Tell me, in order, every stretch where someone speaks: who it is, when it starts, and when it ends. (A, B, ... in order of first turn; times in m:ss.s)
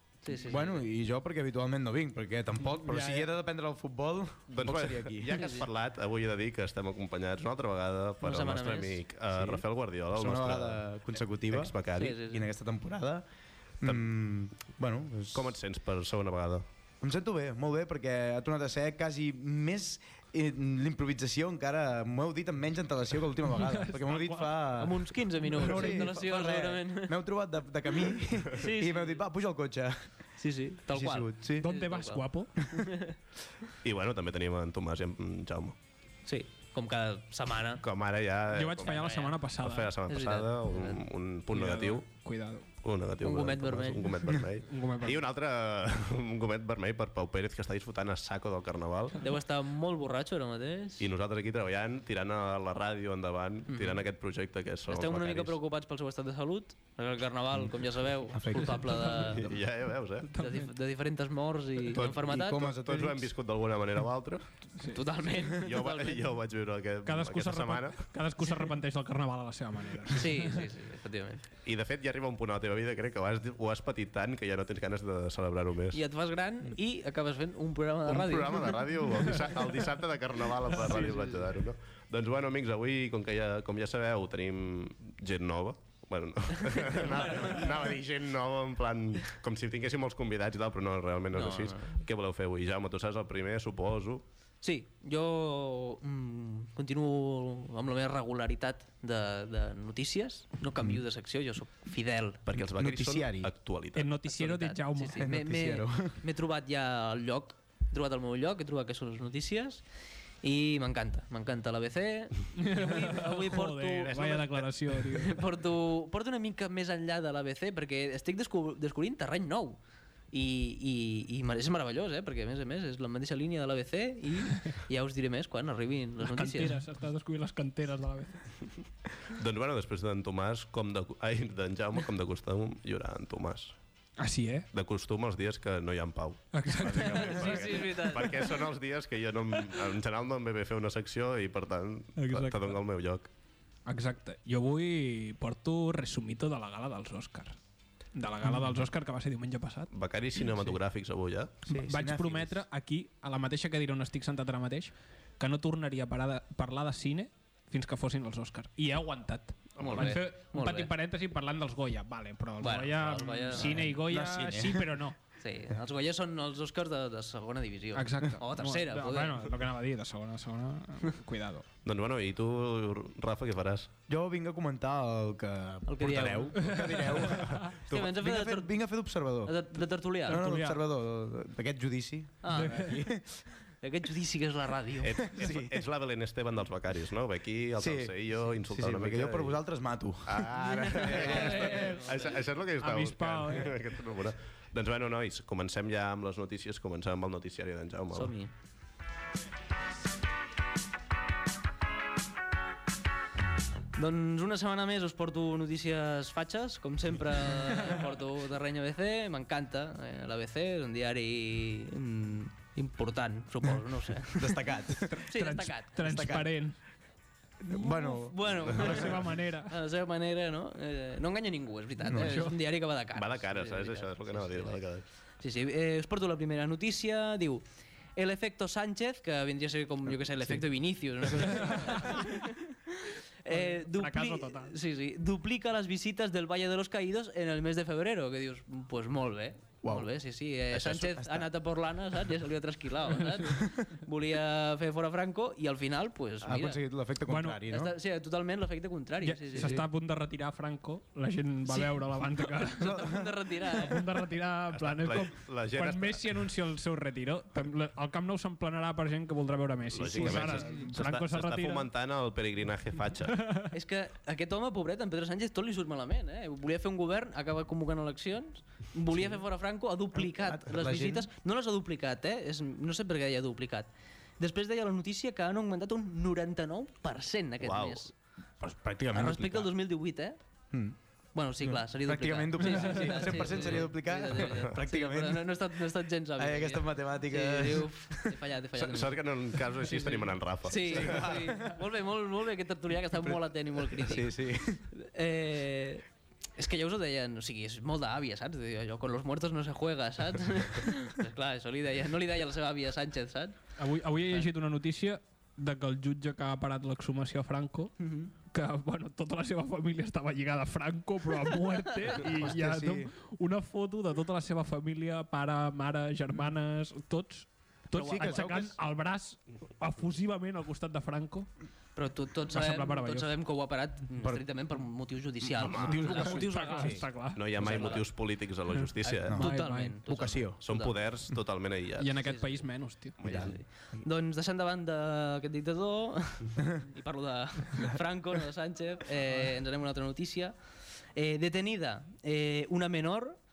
0:00.2-0:00.8 A
0:00.4-0:05.4 B
0:02.8-0:03.3 C
0:04.5-0:10.8 D
0:05.4-0:05.7 A
0:08.2-0:09.6 A
0:10.1-0:13.2 B
0:11.5-0:12.2 D
0:11.9-0:12.5 A
0:13.8-0:15.6 B
0:15.3-0:16.6 D
0:17.0-0:30.2 B
0:23.6-0:24.7 C
0:24.8-0:27.2 A
0:25.6-0:26.0 C
0:28.5-0:29.2 A
0:30.4-0:33.1 A
0:30.9-0:31.7 B
0:31.6-0:32.6 C
0:33.8-0:35.8 D
0:36.2-0:37.8 A
0:37.8-0:42.0 D
0:38.5-0:39.9 C
0:39.0-0:39.3 A
0:40.1-0:41.0 A
0:41.5-0:42.7 C
0:42.8-0:49.3 D
0:43.2-0:44.4 A
0:44.7-0:45.2 C
0:49.2-0:51.0 A
0:51.0-0:55.6 D
0:53.7-0:54.0 A
0:54.9-0:59.5 A
0:58.3-0:59.6 B
0:59.1-1:00.3 D
1:00.3-1:00.7 C
1:00.3-1:02.7 A
1:01.9-1:04.6 D
1:02.2-1:03.3 B
1:04.8-1:06.3 A
1:05.5-1:08.1 D
1:07.0-1:10.6 C
1:10.1-1:11.4 A
1:11.6-1:16.0 D
1:15.9-1:18.8 A
1:18.0-1:34.2 D
1:20.9-1:21.3 A
1:26.7-1:27.9 A
1:31.3-1:32.0 A
1:34.6-1:42.4 A
1:42.5-1:44.2 D
1:42.5-1:43.5 B
1:43.9-1:45.3 C
1:44.2-1:49.8 A
1:45.2-1:46.2 B
1:50.4-1:54.2 A
1:52.6-1:55.4 C
1:54.0-1:55.2 D
1:55.1-1:59.8 A
2:00.3-2:06.8 A
2:06.2-2:08.6 C
2:09.3-2:13.7 D
2:14.2-2:14.7 C
2:14.7-2:23.3 D
2:16.5-2:18.0 C
2:17.0-2:18.6 A
2:22.2-2:22.8 C
2:23.8-2:27.6 C
2:28.1-2:30.7 C
2:29.9-2:31.6 D
2:31.6-2:32.6 B
2:31.7-2:45.2 C
2:39.8-2:40.2 D
2:39.8-2:40.9 A
2:42.6-2:43.8 A
2:43.5-2:44.9 B
2:45.4-2:49.5 A
2:47.9-2:51.6 C
2:51.8-2:53.9 D
2:54.1-2:59.6 B
2:55.8-2:56.7 A
2:56.6-2:57.7 C
2:57.2-2:58.1 D
2:57.9-2:58.7 A
2:59.4-3:00.4 A
3:00.2-3:03.4 B
3:00.3-3:00.8 C
3:02.4-3:03.0 A
3:02.5-3:03.0 C
3:03.8-3:05.2 A
3:05.0-3:09.6 D
3:05.4-3:05.8 B
3:07.8-3:11.9 B
3:10.2-3:18.3 D
3:10.8-3:12.4 A
3:11.2-3:12.0 C
3:12.8-3:13.7 C
3:18.1-3:18.5 A
3:23.9-3:36.1 A
3:34.2-3:35.2 B
3:35.1-3:36.8 C
3:36.0-3:36.6 B
3:37.6-3:39.2 B
3:37.7-3:44.8 A
3:38.7-3:39.8 C
3:42.0-3:42.4 B
3:42.2-3:42.5 C
3:43.1-3:45.0 D
3:45.4-3:47.6 A
3:48.2-4:06.8 A
3:51.6-3:52.2 C
3:53.5-3:54.7 C
3:59.8-4:00.1 B
4:00.7-4:01.3 D
4:01.0-4:01.4 B
4:06.4-4:07.9 B
4:07.2-4:07.6 C
4:07.7-4:09.8 A
4:09.2-4:13.0 C
4:09.6-4:09.8 B
4:11.7-4:14.0 A
4:12.8-4:13.3 B
4:13.7-4:21.9 C
4:14.7-4:16.2 D
4:19.9-4:23.4 D
4:20.1-4:20.9 B
4:23.4-4:23.7 C
4:23.7-4:33.9 A
4:30.1-4:31.3 B
4:34.4-4:38.1 A
4:37.6-4:38.0 D
4:38.6-4:39.7 B
4:39.1-4:40.4 A
4:40.7-4:41.0 B
4:41.3-4:54.4 A
4:41.6-4:45.6 B
4:42.6-4:43.7 C
4:46.4-4:48.3 B
4:48.7-4:51.4 D
4:50.8-4:51.8 B
4:53.2-4:54.9 B
4:54.9-4:56.0 A
4:56.6-5:03.6 A
5:03.8-5:08.0 C
5:08.0-5:08.3 A
5:08.5-5:21.5 C
5:12.0-5:12.2 A
5:12.2-5:13.1 B
5:17.9-5:18.5 A
5:18.0-5:18.8 B
5:22.0-5:28.1 A
5:22.5-5:23.3 C
5:25.5-5:26.4 D
5:25.8-5:27.0 B
5:25.8-5:28.0 C
5:27.3-5:29.4 D
5:28.8-5:30.0 C
5:29.0-5:30.9 A
5:29.3-5:30.6 B
5:30.6-5:32.4 D
5:32.0-5:33.4 C
5:32.2-5:32.6 A
5:33.2-5:33.6 D
5:33.2-5:40.5 A
5:41.1-5:43.4 A